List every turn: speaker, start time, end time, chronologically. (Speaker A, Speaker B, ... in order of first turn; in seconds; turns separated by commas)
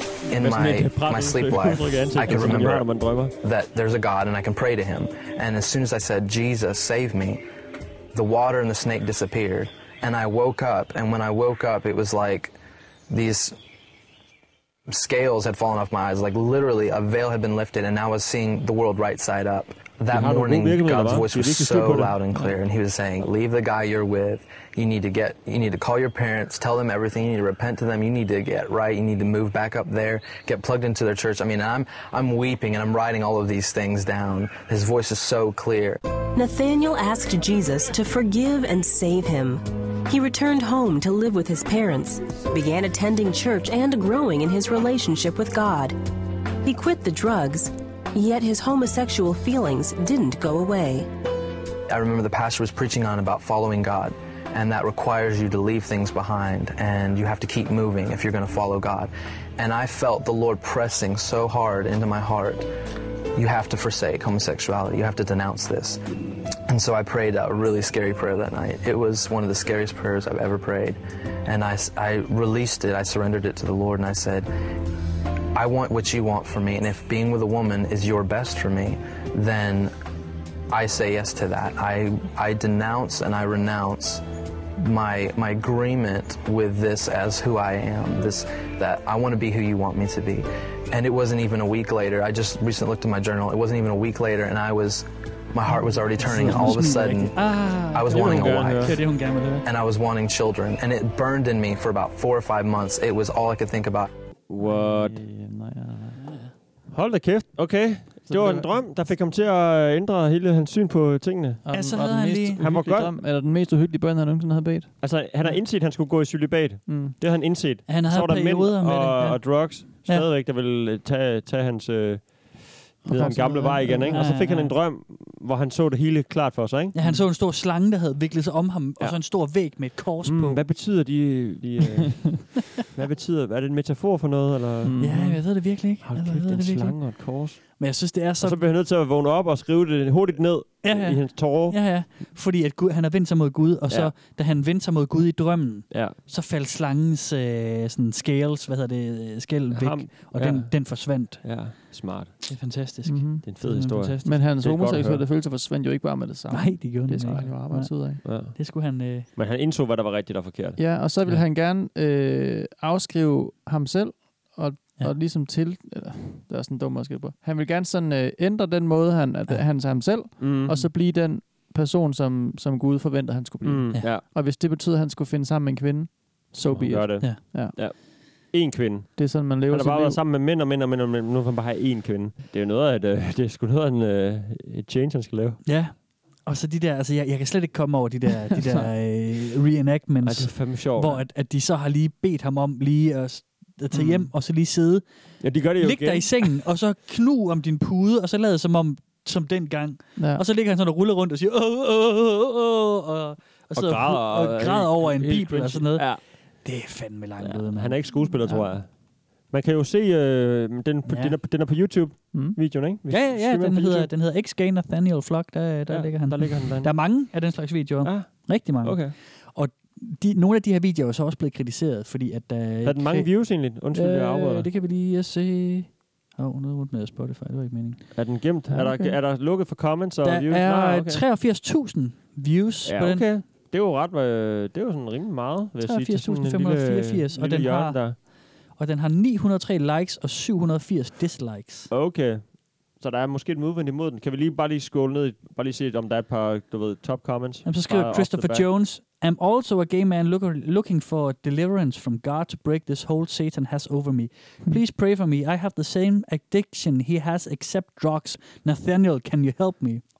Speaker A: 0.3-7.4, Speaker B: 0.3-3.3, Speaker C: 2.2-2.6, Speaker A: 8.1-12.5, Speaker A: 13.1-13.6, Speaker A: 14.9-36.0, Speaker B: 20.1-22.2, Speaker D: 36.4-46.0, Speaker D: 46.6-51.1, Speaker A: 51.9-62.7, Speaker A: 63.4-66.0, Speaker A: 66.7-74.5, Speaker A: 75.5-79.9, Speaker A: 80.7-84.2, Speaker A: 84.8-99.0, Speaker E: 95.7-99.7, Speaker B: 98.1-99.0, Speaker A: 99.7-104.1, Speaker B: 104.5-105.2, Speaker C: 104.6-106.3, Speaker B: 106.9-111.6, Speaker C: 108.3-108.8, Speaker C: 111.7-115.0, Speaker E: 111.7-112.6, Speaker B: 112.6-113.2, Speaker B: 115.0-127.0, Speaker C: 116.9-117.2, Speaker E: 117.9-120.3, Speaker C: 123.1-124.5, Speaker E: 123.9-124.7, Speaker E: 126.9-130.7, Speaker B: 130.2-135.0, Speaker C: 134.8-135.5, Speaker E: 135.0-138.6, Speaker B: 136.0-137.9, Speaker B: 138.4-141.9, Speaker E: 140.8-151.8, Speaker B: 143.9-144.1, Speaker B: 145.9-146.2, Speaker B: 149.7-152.4, Speaker E: 152.5-154.5, Speaker C: 153.1-153.5, Speaker B: 153.4-155.3, Speaker C: 154.2-158.2, Speaker E: 156.5-159.3, Speaker B: 158.2-158.6, Speaker B: 159.3-161.4, Speaker C: 160.8-177.8, Speaker B: 170.4-170.8, Speaker B: 173.6-174.2, Speaker B: 176.6-185.6, Speaker C: 179.2-180.2, Speaker E: 185.7-208.4, Speaker B: 190.2-191.2, Speaker B: 195.4-196.5, Speaker C: 200.2-200.4, Speaker B: 203.8-206.2, Speaker B: 207.4-214.1, Speaker E: 211.1-211.4, Speaker C: 212.3-212.6, Speaker E: 213.1-228.1, Speaker B: 215.9-217.2, Speaker B: 218.0-219.2, Speaker B: 222.8-224.7, Speaker B: 228.1-231.2, Speaker C: 228.7-229.2, Speaker E: 230.2-233.3, Speaker B: 232.8-238.2, Speaker E: 235.8-241.9, Speaker B: 241.9-248.7, Speaker E: 247.7-260.1